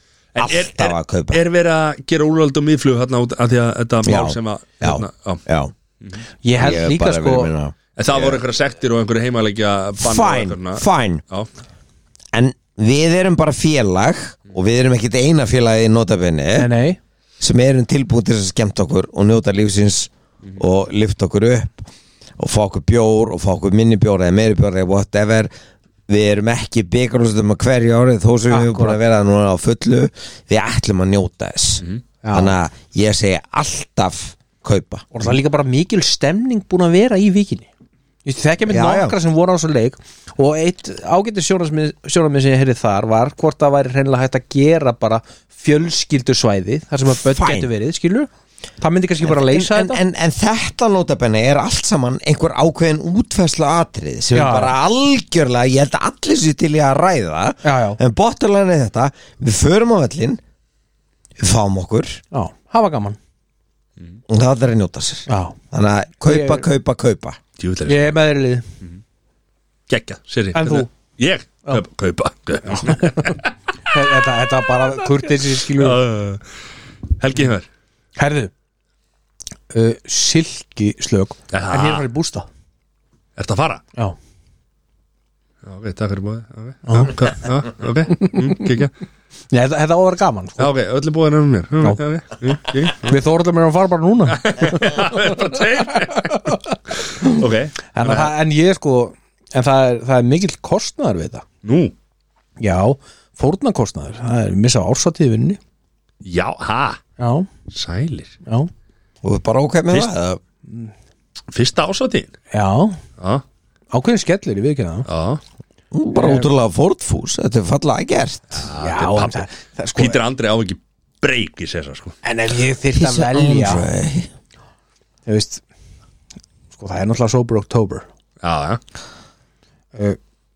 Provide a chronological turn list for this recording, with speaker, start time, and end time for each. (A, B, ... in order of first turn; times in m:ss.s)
0:00.3-0:05.4 A
0:00.4-0:01.4 B
0:04.0-0:05.7 B
0:06.4-0:07.5 C
0:06.5-0:08.4 B
0:08.0-0:11.5 A
0:10.0-0:11.2 B
0:12.3-0:16.7 B
0:16.6-0:17.0 C
0:17.4-0:25.5 B
0:26.1-0:35.1 B
0:28.5-0:29.0 C
0:32.2-0:32.5 C
0:35.1-0:37.7 C
0:38.2-0:50.0 C
0:38.7-0:39.2 B
0:47.3-0:47.7 B
0:49.2-1:00.4 B
0:54.3-0:54.8 C
0:57.6-0:58.0 C
1:01.4-1:02.2 B
1:02.3-1:03.2 C
1:04.3-1:07.4 B
1:05.3-1:05.6 C
1:06.2-1:06.6 C
1:07.6-1:08.2 A
1:07.9-1:08.7 C
1:09.9-1:13.9 A
1:10.5-1:10.9 C
1:12.8-1:13.3 C
1:13.9-1:16.0 C
1:14.8-1:16.4 A
1:17.2-1:17.7 A
1:18.2-1:18.5 C
1:19.7-1:22.5 C
1:21.5-1:22.0 A
1:23.4-1:23.8 A
1:25.6-1:28.9 A
1:26.8-1:27.1 C
1:28.2-1:28.6 C
1:29.5-1:30.7 C
1:30.6-1:33.2 A
1:33.0-1:35.4 C
1:34.3-1:36.4 A
1:35.9-1:36.7 C
1:36.9-1:38.3 A
1:37.9-1:41.4 C
1:41.6-1:41.9 A
1:42.6-1:45.6 C
1:46.2-1:47.0 A
1:47.2-1:47.5 C
1:47.7-1:48.3 A
1:49.2-1:50.4 B
1:51.5-1:52.3 A
1:52.5-1:53.0 C
1:53.2-1:53.4 A
1:53.9-1:55.1 C
1:55.1-1:55.4 A
1:55.9-1:58.6 B
1:56.1-1:56.5 C
1:58.5-2:02.2 A
1:58.7-2:00.2 C
2:02.2-2:03.9 C
2:02.9-2:04.3 B
2:05.2-2:05.6 C
2:06.7-2:08.0 C
2:08.4-2:08.8 A